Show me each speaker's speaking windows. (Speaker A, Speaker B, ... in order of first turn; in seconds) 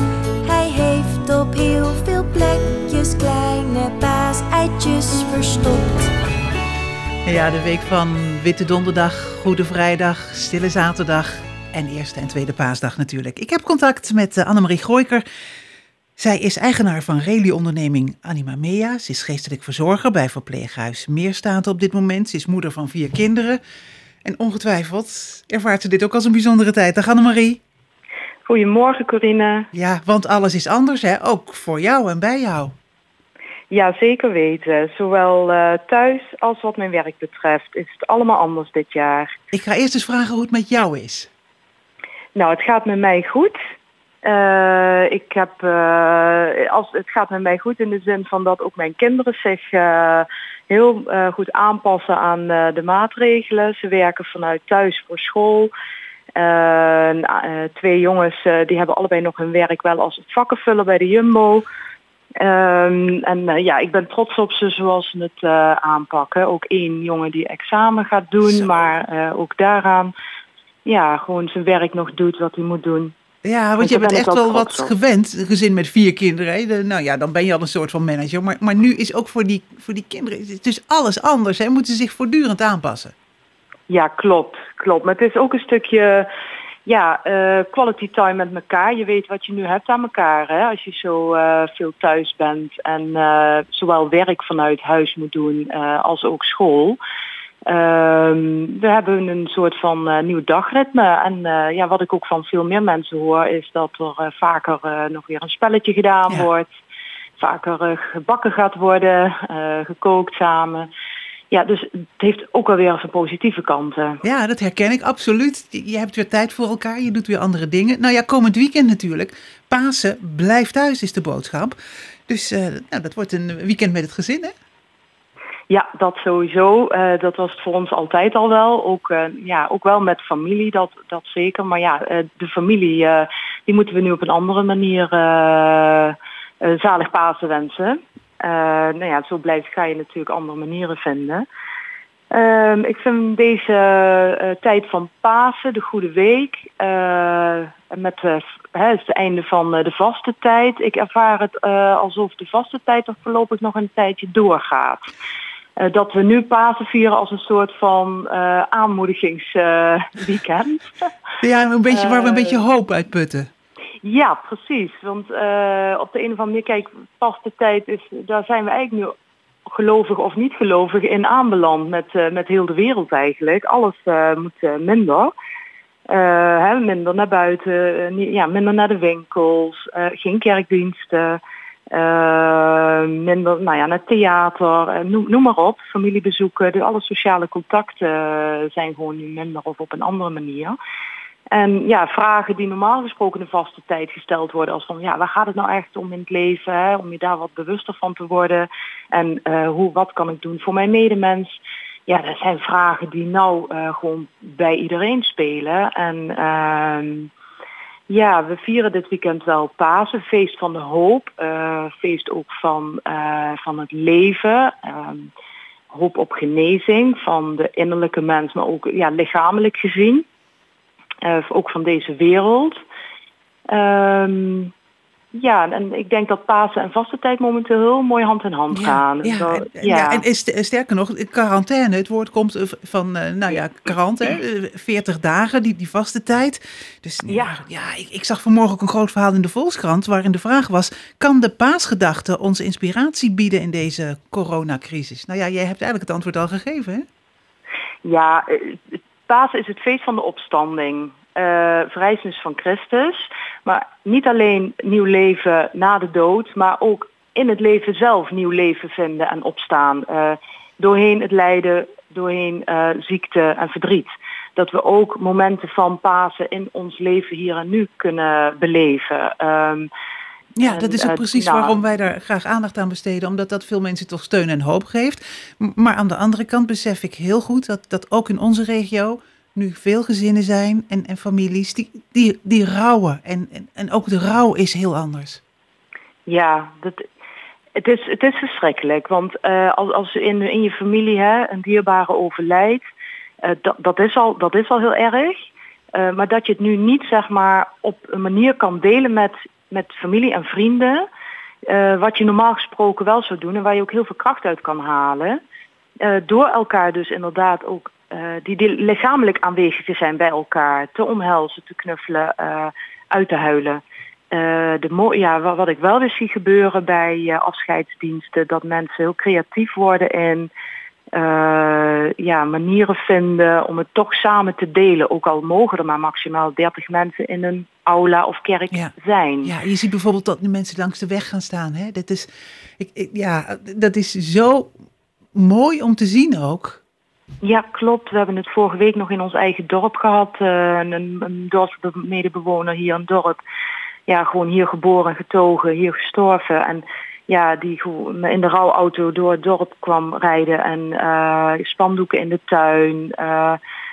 Speaker A: 0.4-6.1
Speaker B: 7.2-15.2, 16.2-23.6, 24.2-27.6, 29.7-32.7, 39.5-41.3, 68.4-68.7, 73.4-83.1, 114.2-121.8, 122.3-124.5, 161.4-163.5, 228.7-247.1, 270.6-285.4, 329.4-334.7, 335.3-336.8
Speaker C: 28.4-29.7, 33.7-39.4, 42.3-43.6, 44.2-55.7, 56.4-61.6, 62.4-70.1, 70.8-73.1, 73.8-74.9, 83.9-86.3, 86.8-97.0, 97.7-106.7, 107.4-110.9, 111.5-114.2, 125.7-141.4, 142.3-155.0, 155.8-161.1, 161.9-162.6, 164.0-169.1, 169.7-175.3, 176.1-190.8, 191.5-201.6, 202.1-207.3, 208.1-215.3, 215.9-220.2, 221.2-222.8, 223.7-224.7, 225.3-230.2, 237.3-237.6, 248.0-269.9, 270.7-271.8, 286.3-287.1, 287.8-292.8, 293.4-301.1, 301.6-305.4, 306.0-320.5, 321.1-329.5, 337.4-343.4, 344.1-353.6